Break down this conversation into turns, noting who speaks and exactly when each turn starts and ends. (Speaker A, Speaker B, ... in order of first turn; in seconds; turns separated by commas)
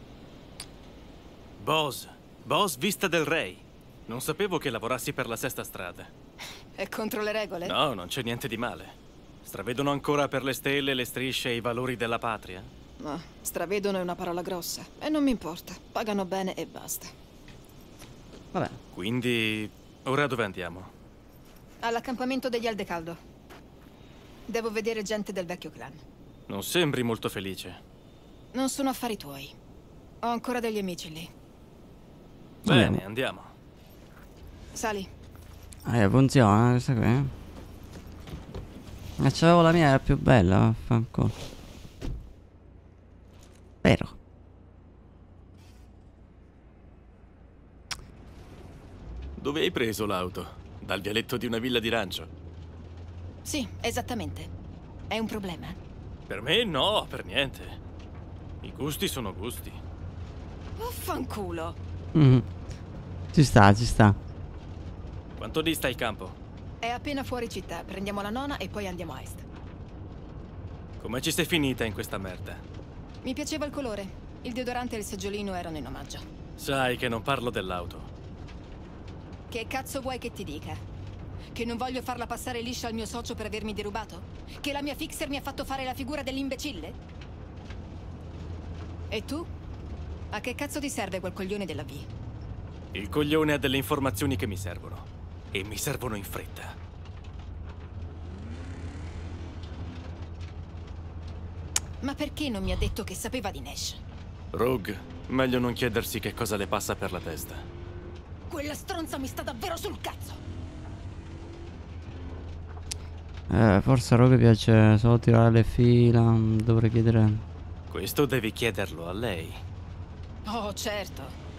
Speaker A: 1.6-6.1, Speaker B: 6.8-7.8, Speaker A: 7.6-12.7, Speaker B: 13.0-17.1, Speaker C: 18.5-18.8, Speaker A: 18.9-20.9, Speaker B: 21.8-23.2, Speaker B: 24.5-26.0, Speaker A: 26.5-27.8, Speaker B: 28.5-29.5, Speaker B: 30.2-31.3, Speaker A: 32.6-33.5, Speaker C: 32.6-33.0, Speaker B: 34.7-35.1, Speaker C: 35.9-37.3, Speaker C: 39.2-41.3, Speaker C: 43.8-44.1, Speaker A: 49.4-52.3, Speaker B: 53.5-54.5, Speaker B: 55.1-55.8, Speaker A: 56.3-57.8, Speaker A: 58.6-59.8, Speaker B: 60.8-61.8, Speaker C: 62.1-62.5, Speaker C: 63.3-64.2, Speaker A: 65.4-66.4, Speaker B: 66.8-69.4, Speaker A: 71.0-72.6, Speaker B: 73.2-76.2, Speaker A: 76.6-78.1, Speaker B: 79.5-80.8, Speaker B: 81.5-87.0, Speaker B: 89.1-89.5, Speaker B: 90.3-92.1, Speaker A: 92.9-96.8, Speaker B: 102.0-104.0, Speaker A: 104.5-107.7, Speaker B: 108.5-110.4, Speaker C: 113.5-117.4, Speaker A: 117.9-119.6, Speaker B: 120.4-121.3